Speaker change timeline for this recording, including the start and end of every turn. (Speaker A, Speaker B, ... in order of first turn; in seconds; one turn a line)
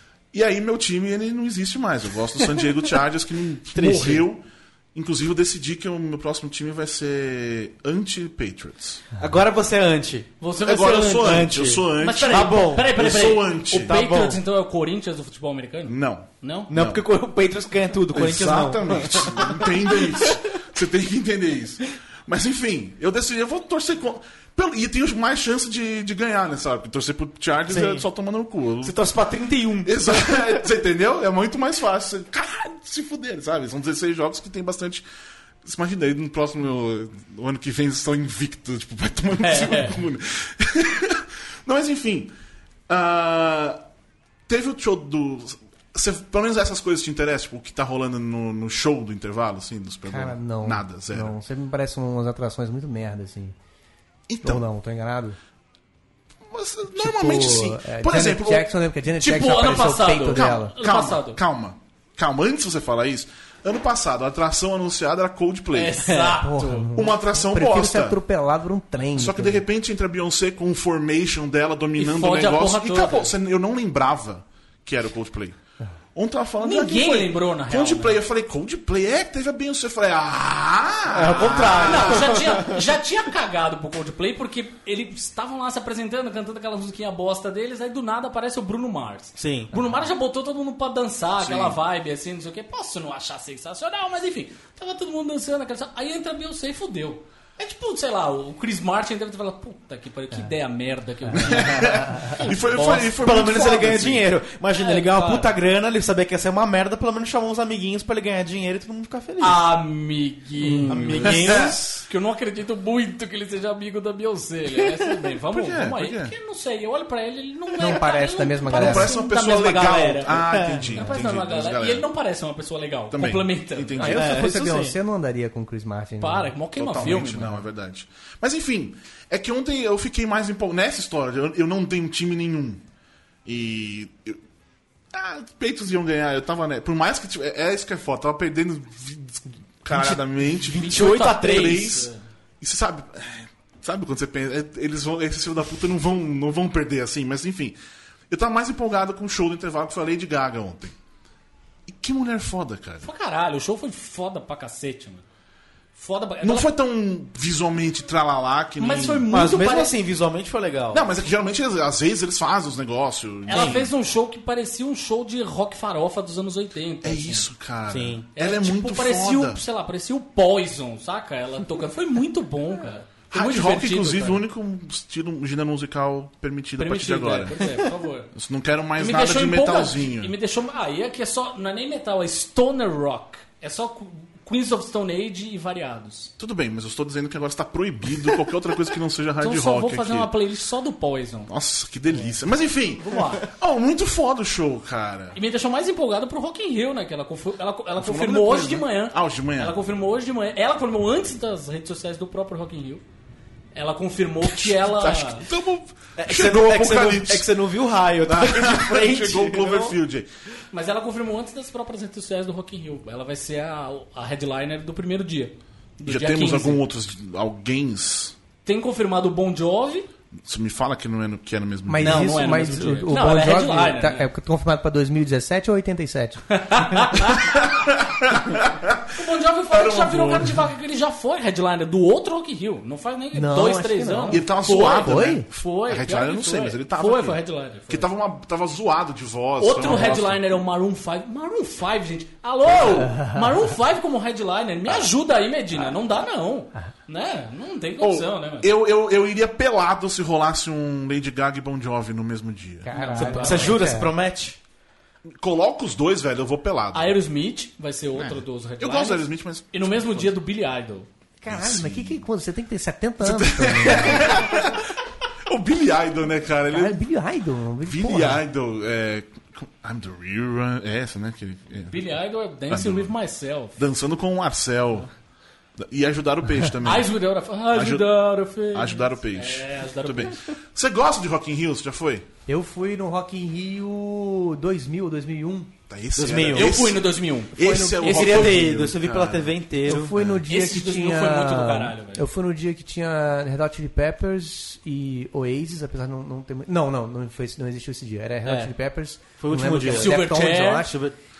Speaker A: 0.3-9.1
Speaker B: 3.7-4.2
Speaker B: 9.2-10.3
Speaker C: 10.4-16.7
Speaker A: 10.6-14.0
Speaker B: 11.1-13.0
Speaker B: 13.7-14.4
Speaker A: 15.8-17.1
Speaker B: 16.7-20.4
Speaker A: 18.1-29.0
Speaker B: 27.7-28.0
Speaker B: 28.8-30.6
Speaker A: 29.8-35.0
Speaker A: 35.6-42.3
Speaker C: 39.4-40.0
Speaker A: 42.9-43.8
Speaker A: 44.5-51.4
Speaker D: 50.1-53.6
Speaker A: 54.3-54.6
Speaker D: 54.4-55.4
Speaker A: 56.5-58.7
Speaker D: 57.0-60.7
Speaker C: 59.2-61.4
Speaker A: 60.3-66.2
Speaker C: 65.7-66.9
Speaker D: 66.4-69.6
Speaker A: 67.0-68.2
Speaker A: 69.2-75.6
Speaker C: 72.0-73.3
Speaker A: 76.2-82.4
Speaker C: 76.6-78.2
Speaker B: 81.1-82.8
Speaker C: 81.4-103.5
Speaker B: 89.4-89.7
Speaker A: 91.4-91.8
Speaker A: 101.3-104.3
Speaker B: 103.2-109.6
Speaker C: 104.7-105.5
Speaker C: 109.4-120.4
Speaker D: 110.6-110.9
Speaker B: 110.9-112.0
Speaker A: 111.2-111.8
Speaker A: 115.5-116.3
Speaker D: 117.8-119.2
Speaker A: 118.7-122.1
Speaker B: 120.3-121.0
Speaker C: 120.9-124.2
Speaker A: 123.1-124.4
Speaker D: 124.0-126.5
Speaker B: 124.1-125.0
Speaker C: 126.2-127.6
Speaker A: 126.8-132.8
Speaker A: 133.5-134.4
Speaker A: 135.1-147.8
Speaker B: 139.9-141.9
Speaker C: 140.6-142.2
Speaker A: 148.3-151.0
Speaker A: 151.9-153.1
Speaker C: 153.0-155.2
Speaker C: 155.9-156.7
Speaker A: 156.4-159.3
Speaker C: 158.8-160.0
Speaker B: 159.3-161.1
Speaker A: 160.9-163.9
Speaker C: 163.5-167.5
Speaker B: 163.5-163.8
Speaker A: 167.0-169.6
Speaker B: 167.9-168.3
Speaker C: 168.3-174.4
Speaker A: 173.3-177.7
Speaker C: 176.8-178.3
Speaker A: 178.3-180.3
Speaker C: 179.0-186.3
Speaker A: 186.4-190.3
Speaker C: 189.4-191.5
Speaker A: 191.5-195.4
Speaker C: 193.0-193.5
Speaker C: 195.3-203.0
Speaker A: 198.0-199.8
Speaker C: 203.7-205.5
Speaker A: 204.4-207.5
Speaker B: 206.2-210.0
Speaker A: 208.2-210.3
Speaker C: 210.7-216.8
Speaker A: 216.0-218.3
Speaker C: 218.7-220.1
Speaker A: 220.4-222.7
Speaker D: 221.9-226.8
Speaker C: 222.0-224.3
Speaker C: 226.5-227.7
Speaker A: 227.5-229.1
Speaker C: 229.1-238.1
Speaker A: 229.7-230.7
Speaker D: 233.3-235.5
Speaker A: 234.3-240.4
Speaker C: 239.6-248.7
Speaker D: 243.0-243.5
Speaker A: 248.0-252.9
Speaker D: 252.8-254.1
Speaker C: 252.9-253.9
Speaker B: 253.2-254.6
Speaker A: 255.3-257.2
Speaker C: 256.9-261.1
Speaker A: 258.1-260.4
Speaker D: 261.4-264.5
Speaker A: 261.5-262.3
Speaker A: 263.2-267.0
Speaker D: 266.7-268.4
Speaker A: 267.8-272.1
Speaker C: 271.9-273.8
Speaker A: 272.7-273.1
Speaker A: 273.8-275.1
Speaker A: 275.8-277.1
Speaker C: 276.8-280.4
Speaker A: 277.7-278.1
Speaker A: 278.7-282.3
Speaker D: 282.5-285.7
Speaker A: 285.9-290.4
Speaker B: 286.2-286.8
Speaker C: 286.4-288.7
Speaker D: 287.6-288.0
Speaker B: 288.0-290.1
Speaker D: 289.9-301.0
Speaker C: 290.5-292.2
Speaker B: 299.4-300.3
Speaker C: 299.9-300.9
Speaker B: 300.9-301.1